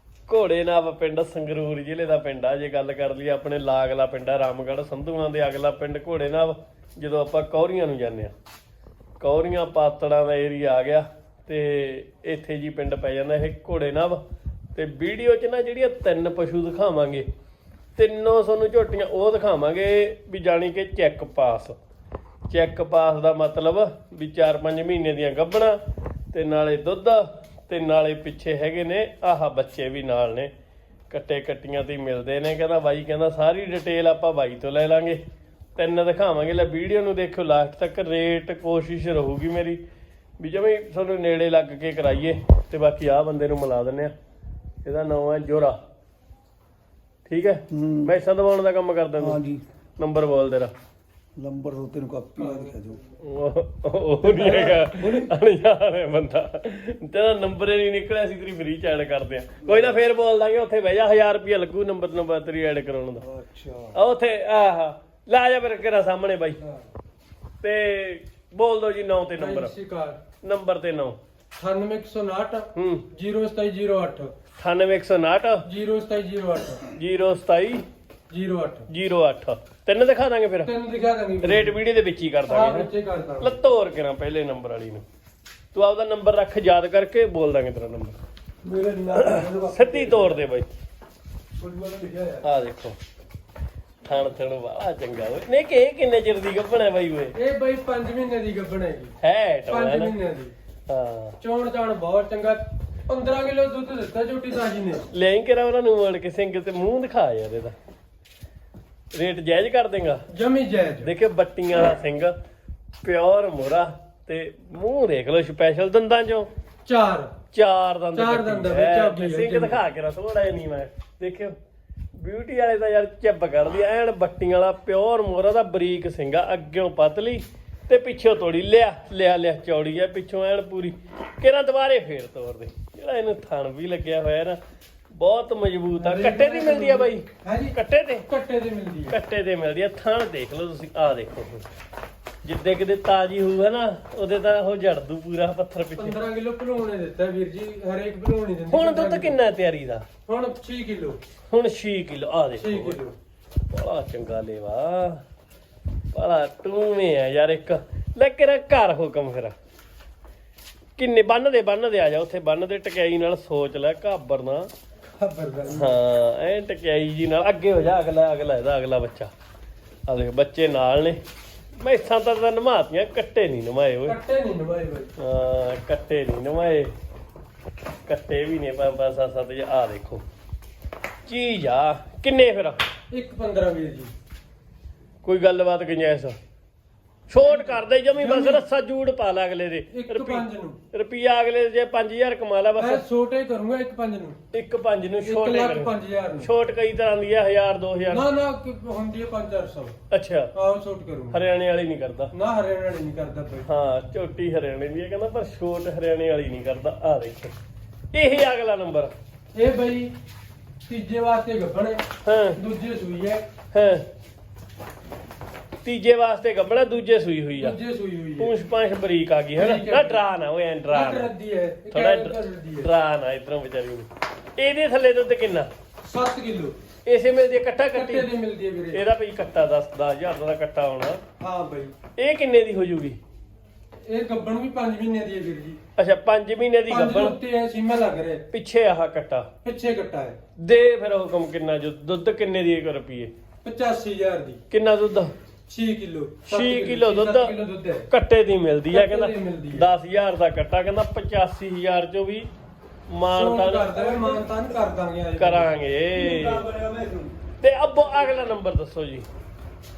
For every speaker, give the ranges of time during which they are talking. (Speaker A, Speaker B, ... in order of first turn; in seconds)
Speaker A: 0.3-8.3, 9.2-14.2, 14.8-17.3, 18.0-21.8, 22.5-25.8, 26.3-30.5, 31.1-35.2, 35.8-39.8, 40.4-44.1, 44.8-45.8, 47.3-49.4, 50.0-50.7, 53.2-63.3, 63.9-66.6, 67.6-69.7, 70.4-71.2, 72.8-73.1, 74.6-75.6, 76.9-77.8, 78.9-80.7, 81.4-82.9, 83.4-85.0, 85.7-88.2, 89.2-90.7, 92.4-93.0, 94.0-97.3, 99.2-100.1, 100.9-101.4, 105.1-107.8, 109.1-110.2, 111.0-112.3, 113.0-116.5, 117.5-121.5, 122.2-134.6, 135.1-138.3, 139.1-141.7, 142.4-146.2, 148.7-150.1, 151.5-153.0, 153.7-155.2, 156.1-159.6, 161.0-164.7, 165.7-169.3, 170.1-171.2, 171.8-174.2, 175.2-176.9, 178.1-180.2, 181.3-182.8, 185.2-186.4, 187.3-193.0, 194.5-198.3, 200.1-200.5, 201.3-202.3, 203.7-207.6, 208.1-209.1, 212.2-212.6, 213.7-214.1, 215.8-217.8, 218.4-221.3, 221.9-225.7, 227.1-228.3, 228.9-231.2, 232.2-233.2, 236.0-237.4, 238.5-239.5, 240.6-243.3, 244.7-245.3, 246.5-247.5, 248.1-252.5, 253.1-254.1, 255.4-256.7, 257.6-259.3
Speaker B: 47.7-48.1, 49.2-49.6, 51.4-53.0, 54.2-55.3, 59.6-59.9, 63.2-64.0, 88.6-90.4, 91.6-92.4, 256.1-257.3
Speaker C: 52.4-52.7, 69.4-70.2, 71.6-74.3, 75.7-76.8, 78.3-78.9, 80.7-81.8, 82.5-83.6, 97.4-99.2, 99.7-100.5, 101.4-105.1, 110.3-111.1, 116.9-117.3, 118.1-119.8, 136.0-137.8, 138.3-139.2, 146.0-149.4, 150.3-151.2, 152.6-153.2, 165.2-166.0, 174.1-175.1, 183.1-184.1, 187.4-188.6, 189.9-190.8, 192.8-194.4, 195.2-196.5, 198.1-199.9, 200.6-201.4, 202.3-203.7, 209.6-210.1, 210.9-212.0, 212.6-213.4, 217.6-218.5, 219.6-220.2, 220.9-222.9, 226.0-226.8, 227.9-229.0, 231.4-231.9, 234.1-235.8, 236.9-238.4, 239.6-240.4, 243.6-244.6, 245.7-248.1, 248.9-249.9, 253.3-255.7